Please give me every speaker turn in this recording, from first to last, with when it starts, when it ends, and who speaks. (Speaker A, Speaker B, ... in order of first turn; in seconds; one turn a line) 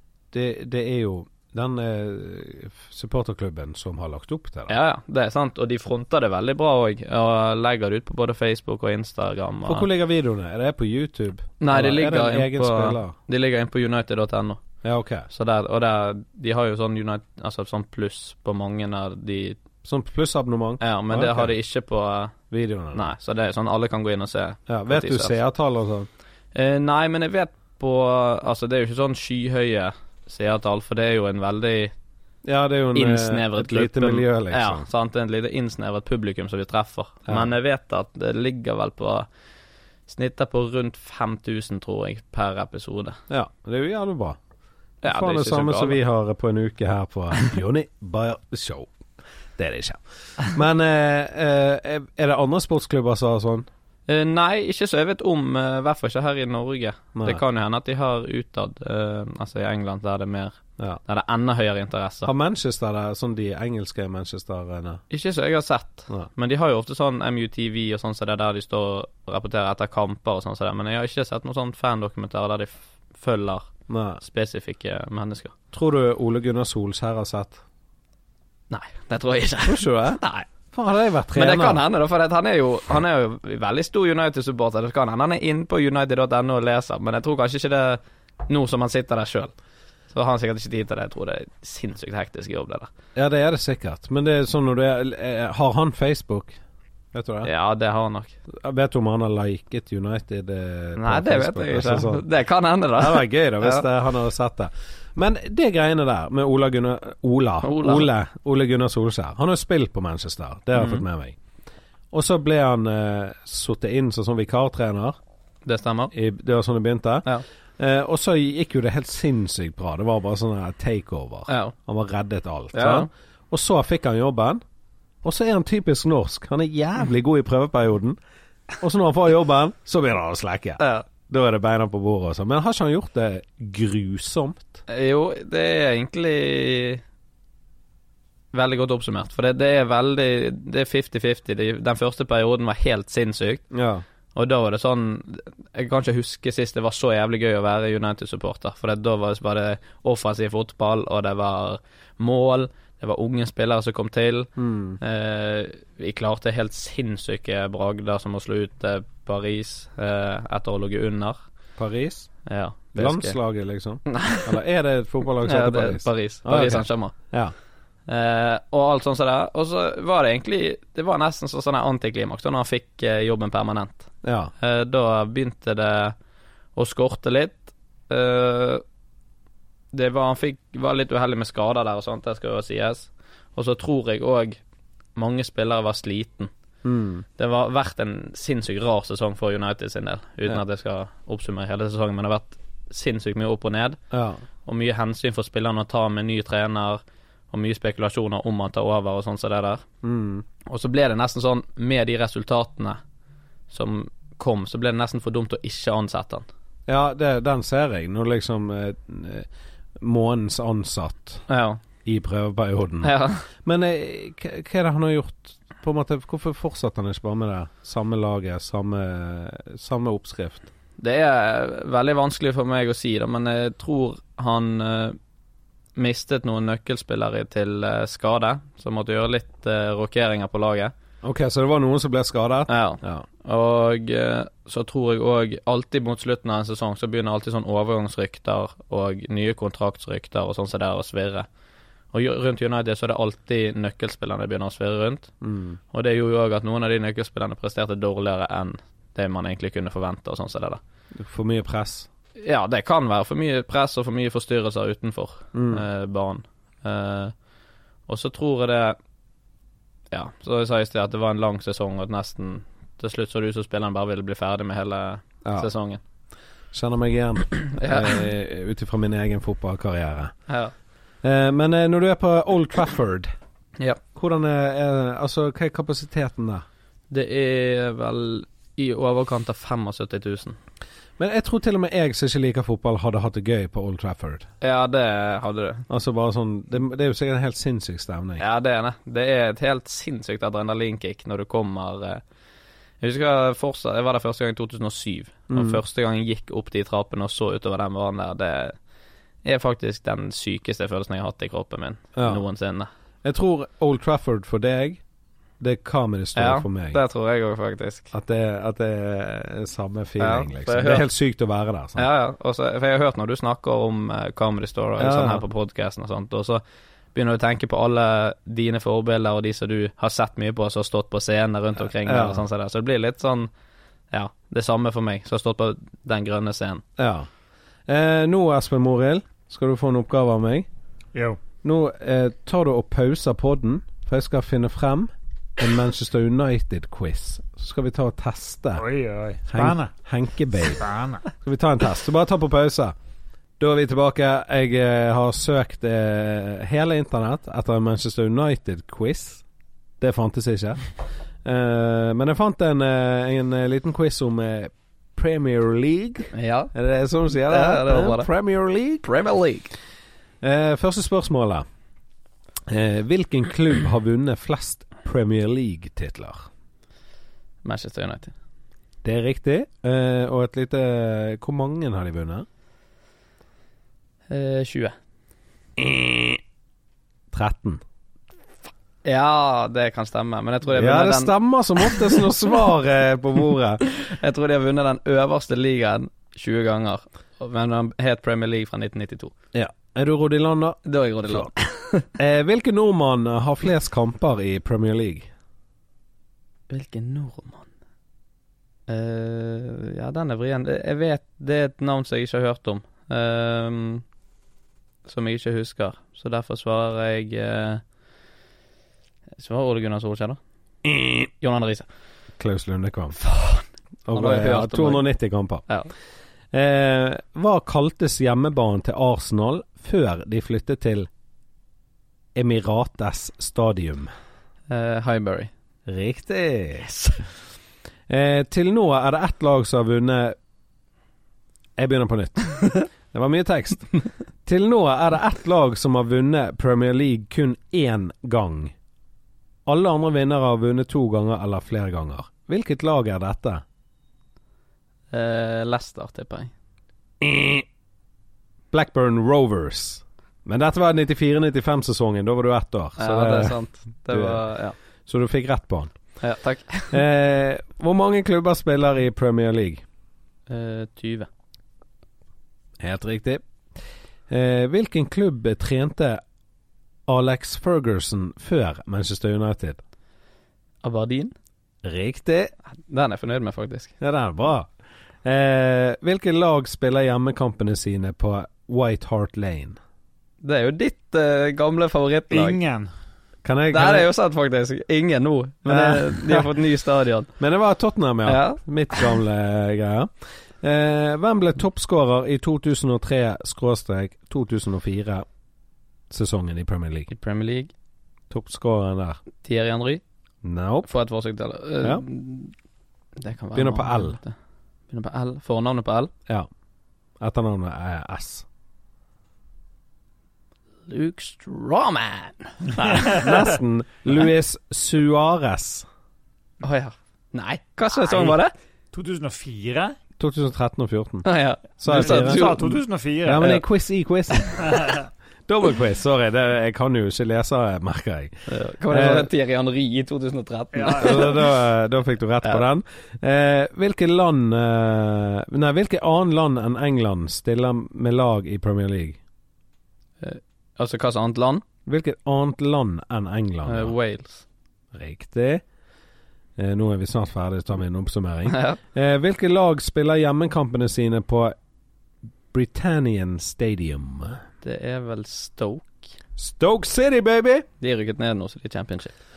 Speaker A: 0.3-4.8
Speaker B: 4.7-9.9
Speaker A: 9.6-13.1
Speaker B: 11.6-14.6
Speaker A: 14.8-15.3
Speaker B: 15.3-19.6
Speaker A: 19.8-21.5
Speaker B: 20.8-22.4
Speaker A: 22.5-23.1
Speaker B: 22.9-25.4
Speaker A: 24.7-26.1
Speaker B: 26.6-31.9
Speaker A: 32.5-34.9
Speaker B: 33.0-39.3
Speaker B: 40.1-43.2
Speaker A: 43.3-44.4
Speaker B: 45.0-46.0
Speaker A: 45.0-48.9
Speaker A: 49.6-53.7
Speaker B: 54.1-62.3
Speaker A: 57.1-57.4
Speaker A: 62.2-65.0
Speaker B: 65.1-73.7
Speaker A: 73.9-74.2
Speaker B: 74.2-75.5
Speaker A: 75.7-77.6
Speaker B: 78.7-80.5
Speaker A: 79.6-80.2
Speaker A: 80.7-81.8
Speaker B: 81.3-89.5
Speaker B: 90.1-92.9
Speaker A: 93.1-96.6
Speaker A: 97.1-97.5
Speaker B: 97.4-98.3
Speaker A: 98.5-102.2
Speaker B: 101.0-103.9
Speaker A: 103.0-111.4
Speaker B: 107.6-108.1
Speaker B: 110.8-111.0
Speaker A: 112.1-115.2
Speaker B: 115.6-116.1
Speaker A: 116.1-117.3
Speaker A: 117.8-124.6
Speaker B: 121.5-121.7
Speaker B: 122.7-123.1
Speaker A: 125.2-128.2
Speaker A: 128.8-134.8
Speaker B: 130.8-131.1
Speaker B: 134.9-137.0
Speaker B: 138.5-143.6
Speaker A: 143.7-144.0
Speaker B: 144.3-161.4
Speaker A: 154.6-155.0
Speaker A: 161.8-162.3
Speaker B: 162.5-163.4
Speaker A: 162.9-167.5
Speaker B: 164.1-164.6
Speaker B: 165.4-167.2
Speaker B: 168.1-176.1
Speaker A: 174.2-174.5
Speaker B: 176.8-178.8
Speaker B: 179.9-184.6
Speaker B: 185.2-186.5
Speaker A: 186.8-187.2
Speaker B: 187.4-194.0
Speaker A: 194.1-194.4
Speaker B: 194.6-199.8
Speaker A: 200.0-200.4
Speaker B: 200.7-203.0
Speaker B: 203.7-206.5
Speaker A: 206.9-211.4
Speaker B: 211.5-211.8
Speaker A: 212.0-220.7
Speaker B: 213.0-213.4
Speaker B: 221.0-225.2
Speaker B: 226.0-230.9
Speaker A: 231.2-233.2
Speaker B: 232.7-241.5
Speaker B: 242.1-245.3
Speaker A: 245.4-245.8
Speaker B: 245.9-250.8
Speaker A: 251.1-252.1
Speaker B: 252.4-257.3
Speaker A: 255.5-255.8
Speaker B: 258.1-259.0
Speaker B: 260.1-266.0
Speaker A: 265.4-265.7
Speaker A: 266.7-270.4
Speaker B: 267.7-268.2
Speaker B: 270.5-270.7
Speaker A: 271.2-273.3
Speaker A: 274.1-276.6
Speaker B: 277.1-280.6
Speaker A: 281.2-284.5
Speaker B: 284.6-285.9
Speaker A: 285.9-288.4
Speaker B: 288.4-292.2
Speaker B: 293.0-298.8
Speaker A: 295.5-295.8
Speaker B: 299.4-302.9
Speaker A: 302.1-302.4
Speaker A: 303.2-305.0
Speaker A: 305.6-307.0
Speaker B: 306.4-308.1
Speaker A: 308.1-312.1
Speaker B: 310.2-311.1
Speaker B: 312.0-316.6
Speaker A: 315.0-315.4
Speaker B: 317.1-323.5
Speaker A: 322.0-322.4
Speaker B: 324.1-326.8
Speaker A: 327.0-327.3
Speaker A: 327.9-330.7
Speaker A: 331.6-338.8
Speaker C: 338.8-339.9
Speaker A: 339.5-340.8
Speaker C: 340.7-341.2
Speaker A: 341.4-342.9
Speaker A: 343.6-349.4
Speaker A: 350.0-350.8
Speaker A: 351.4-359.1
Speaker B: 356.3-356.7
Speaker B: 357.3-358.3
Speaker B: 359.1-359.7
Speaker A: 360.4-361.6
Speaker A: 362.7-366.5
Speaker B: 367.6-368.3
Speaker A: 369.0-372.4
Speaker B: 374.3-374.9
Speaker A: 375.8-376.4
Speaker A: 377.3-377.8
Speaker B: 379.1-382.2
Speaker A: 380.8-383.8
Speaker B: 383.9-389.3
Speaker A: 389.5-391.5
Speaker B: 390.9-392.1
Speaker A: 392.1-395.3
Speaker B: 396.7-397.7
Speaker B: 398.9-404.0
Speaker B: 405.1-407.8
Speaker B: 409.4-410.4
Speaker A: 410.9-411.3
Speaker B: 411.4-411.9
Speaker A: 412.4-413.2
Speaker B: 413.2-415.1
Speaker A: 414.1-415.6
Speaker A: 416.5-421.1
Speaker A: 422.4-424.1
Speaker B: 424.7-425.5
Speaker A: 425.9-426.9
Speaker B: 426.8-427.2
Speaker A: 428.1-430.4
Speaker A: 431.8-433.9
Speaker A: 434.4-438.8
Speaker A: 439.6-443.6
Speaker B: 445.1-446.5
Speaker A: 447.2-447.6
Speaker A: 448.7-454.4
Speaker B: 453.0-454.8
Speaker A: 455.1-455.9
Speaker B: 456.2-457.0
Speaker A: 456.9-459.8
Speaker B: 460.5-461.3
Speaker A: 462.8-463.4
Speaker A: 464.3-466.2
Speaker A: 467.1-469.8
Speaker B: 470.8-471.3
Speaker A: 471.8-472.5
Speaker B: 472.9-473.9
Speaker A: 474.0-474.7
Speaker A: 475.2-479.8
Speaker B: 480.4-482.6
Speaker C: 482.3-482.9
Speaker A: 483.4-484.1
Speaker B: 483.7-487.3
Speaker A: 485.6-486.5
Speaker A: 487.4-495.2
Speaker B: 488.3-489.1
Speaker A: 496.1-497.1
Speaker B: 497.1-497.7
Speaker A: 498.3-499.2
Speaker B: 499.4-500.0
Speaker A: 500.4-500.9
Speaker B: 500.9-502.5
Speaker B: 503.2-504.4
Speaker A: 503.5-504.2
Speaker B: 504.9-506.1
Speaker A: 507.2-508.4
Speaker B: 510.9-513.4
Speaker C: 512.9-513.2
Speaker A: 513.0-515.9
Speaker B: 516.6-518.5
Speaker C: 518.9-519.9
Speaker A: 520.2-521.3
Speaker B: 521.2-522.8
Speaker A: 521.8-522.6
Speaker C: 521.9-523.6
Speaker A: 523.2-528.3
Speaker B: 528.5-531.5
Speaker A: 528.9-529.3
Speaker C: 530.8-531.3
Speaker A: 531.0-539.2
Speaker B: 540.2-541.6
Speaker A: 541.9-543.9
Speaker B: 543.6-544.4
Speaker A: 544.9-545.6
Speaker A: 546.6-551.5
Speaker B: 548.5-548.8
Speaker A: 552.5-554.4
Speaker B: 554.6-556.1
Speaker A: 556.4-557.7
Speaker B: 557.8-559.1